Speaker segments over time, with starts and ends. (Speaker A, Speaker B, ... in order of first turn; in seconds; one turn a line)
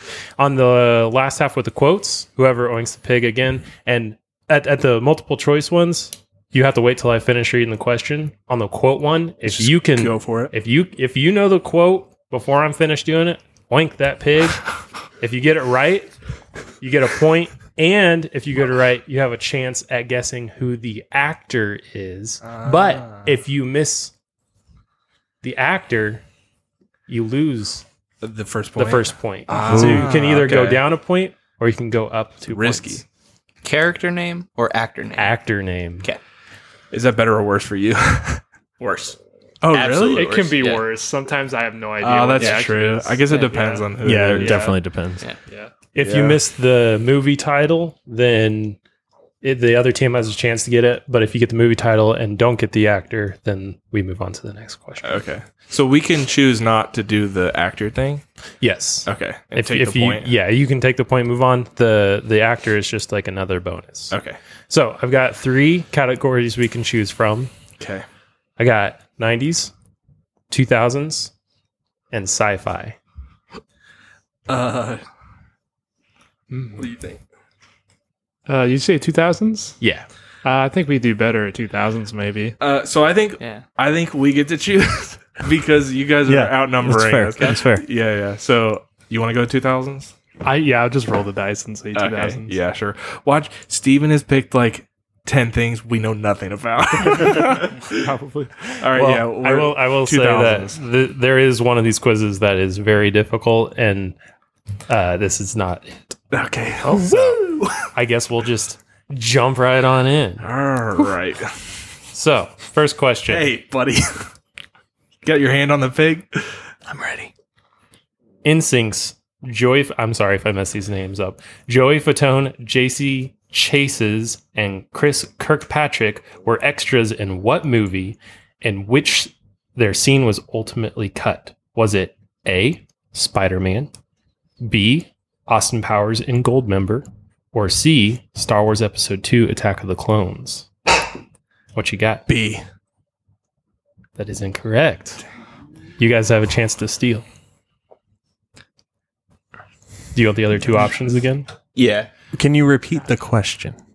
Speaker A: 0.4-14.6
Speaker B: 9.4-10.5
Speaker A: 15.2-16.1
Speaker A: 16.8-24.1
Speaker B: 22.4-23.3
Speaker A: 25.4-26.2
Speaker A: 27.1-27.9
Speaker B: 28.2-30.9
Speaker A: 28.8-33.0
Speaker C: 29.7-30.1
Speaker B: 32.5-33.0
Speaker D: 33.6-35.4
Speaker A: 35.2-36.1
Speaker B: 36.9-38.4
Speaker D: 38.8-40.9
Speaker B: 39.6-40.3
Speaker E: 40.1-44.8
Speaker B: 42.0-44.7
Speaker D: 42.4-42.7
Speaker D: 43.3-43.6
Speaker C: 44.0-45.2
Speaker A: 45.9-48.8
Speaker B: 46.0-46.4
Speaker A: 49.4-55.2
Speaker B: 55.0-58.2
Speaker A: 58.6-64.2
Speaker B: 59.1-60.3
Speaker B: 64.1-64.4
Speaker A: 64.7-67.5
Speaker B: 67.8-68.0
Speaker A: 68.6-69.7
Speaker A: 70.5-71.3
Speaker A: 72.1-73.0
Speaker B: 74.5-75.0
Speaker E: 76.5-76.8
Speaker B: 76.8-77.2
Speaker E: 78.5-79.8
Speaker A: 79.8-80.1
Speaker E: 80.4-82.6
Speaker B: 82.6-90.1
Speaker D: 83.4-83.6
Speaker C: 86.2-87.8
Speaker E: 90.4-92.6
Speaker B: 91.9-98.1
Speaker E: 97.9-98.5
Speaker B: 98.8-100.8
Speaker A: 98.9-104.2
Speaker A: 104.9-106.0
Speaker B: 106.3-107.8
Speaker A: 106.8-110.5
Speaker B: 110.4-111.5
Speaker A: 112.1-113.5
Speaker B: 113.3-114.2
Speaker B: 115.2-116.4
Speaker D: 116.9-117.3
Speaker A: 118.4-133.9
Speaker A: 134.6-140.7
Speaker A: 141.8-142.3
Speaker B: 142.3-142.6
Speaker A: 144.2-145.2
Speaker A: 146.0-147.2
Speaker A: 150.2-151.5
Speaker D: 151.8-152.1
Speaker C: 152.3-153.8